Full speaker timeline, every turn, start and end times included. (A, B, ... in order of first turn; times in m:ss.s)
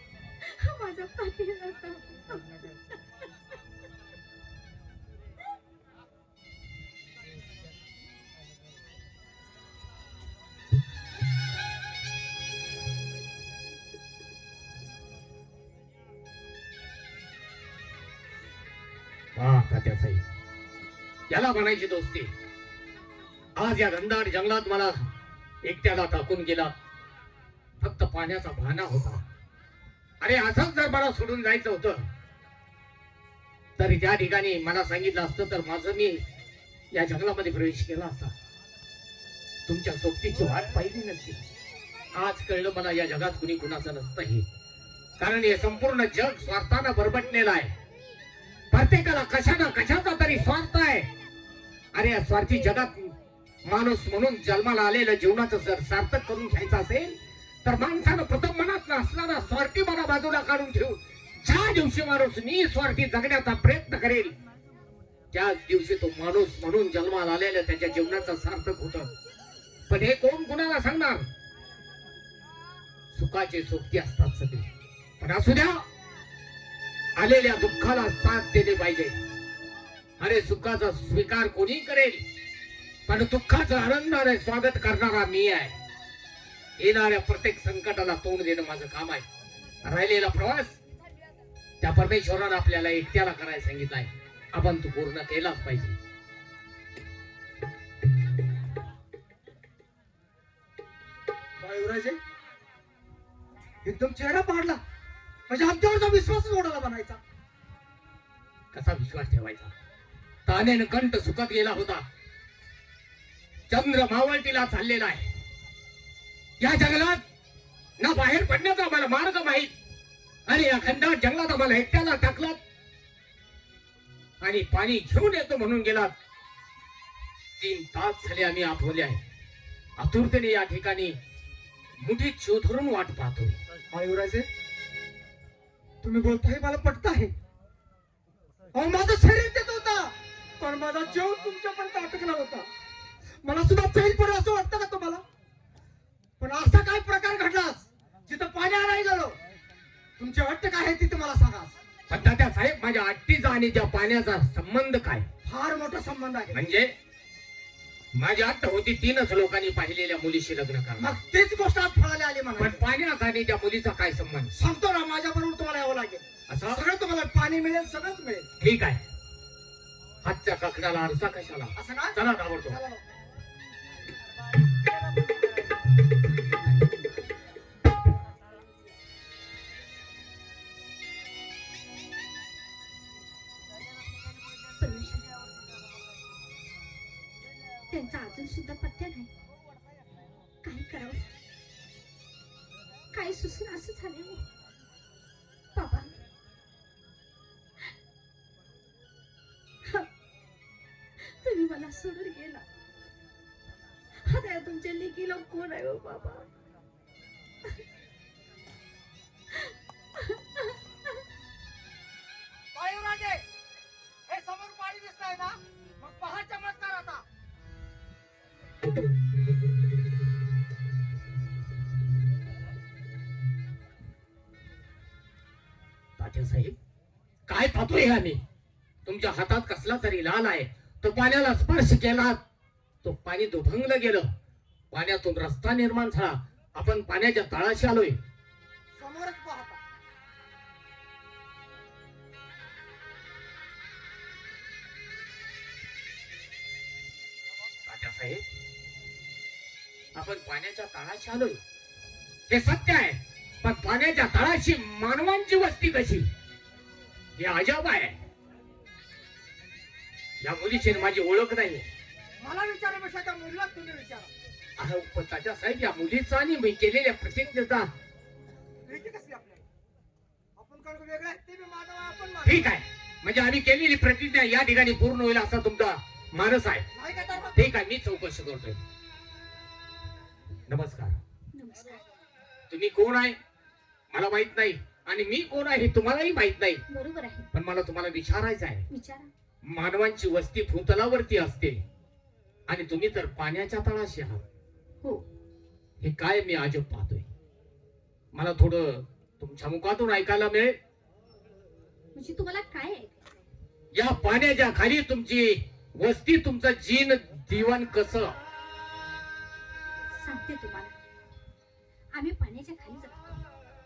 0:00.4-0:02.5 A
0:19.4-0:20.2 B
0:21.3-0:22.3 B
0:23.6-0:25.1 B
0:25.6-0:26.7 B
0:27.8-0:29.2 B
0:30.2-0:32.0 B
0:33.8-0:36.2 B
0:36.9-0:38.3 B
0:39.7-0:41.4 B
0:42.1-0:44.5 B
0:45.2-0:47.7 B
0:48.7-0:51.1 B
0:51.9-0:53.1 B
0:53.6-1:04.4 B
1:05.3-1:09.1 B
1:09.9-1:11.2 B
1:13.1-1:14.7 B
1:15.2-1:15.8 B
1:17.2-1:19.2 B
1:20.2-1:22.2 B
1:23.1-1:25.8 B
1:26.8-1:29.2 B
1:29.8-1:30.8 B
1:31.8-1:36.0 B
1:41.6-1:42.2 C
1:43.8-1:44.8 C
1:45.5-1:47.2 C
1:48.7-1:49.7 B
1:50.5-1:52.0 B
1:53.7-1:55.3 B
1:56.6-1:57.2 B
1:58.0-1:59.7 B
2:00.5-2:02.6 B
2:04.4-2:06.1 B
2:07.6-2:09.2 B
2:10.0-2:11.2 B
2:12.0-2:13.6 B
2:13.9-2:14.5 C
2:16.0-2:17.3 C
2:18.7-2:22.7 C
2:23.4-2:25.2 C
2:26.4-2:29.4 C
2:30.2-2:31.7 C
2:32.1-2:35.3 B
2:35.4-2:36.6 C
2:36.5-2:36.9 B
2:38.1-2:41.2 B
2:41.0-2:42.8 C
2:42.6-2:44.5 B
2:44.6-2:48.5 C
2:46.5-2:46.8 B
2:48.6-2:49.0 B
2:50.2-2:52.8 B
2:51.8-2:53.0 C
3:04.8-3:05.3 A
3:07.9-3:09.3 A
3:10.6-3:11.3 A
3:13.1-3:14.5 A
3:15.7-3:16.1 A
3:21.3-3:22.6 A
3:24.2-3:26.5 A
3:30.2-3:30.8 A
3:32.7-3:33.4 C
3:34.3-3:37.2 C
3:46.2-3:46.8 B
3:47.5-3:48.4 B
3:49.1-3:52.4 B
3:53.0-3:54.3 B
3:54.9-3:58.2 B
3:59.0-3:59.8 C
4:07.8-4:08.4 B
4:10.1-4:11.6 B
4:12.5-4:16.3 B
4:17.4-4:18.2 B
4:20.4-4:21.9 B
4:20.8-4:21.1 C
4:22.4-4:24.3 C
4:24.8-4:27.9 B
4:28.8-4:29.6 C
4:30.6-4:32.7 C
4:32.4-4:36.8 B
4:37.0-4:37.7 C
4:37.6-4:38.8 B
4:40.7-4:41.2 B
4:41.5-4:42.0 A
4:42.7-4:43.4 B
4:44.1-4:46.8 B
4:46.9-4:47.5 A
4:47.5-4:48.8 B
4:48.9-4:49.3 A
4:49.6-4:51.8 B
4:52.7-4:54.4 B
4:56.0-4:57.3 B
4:58.3-5:00.8 B
5:02.2-5:03.2 A
5:03.9-5:08.4 B
5:10.1-5:10.9 A
5:12.1-5:13.4 A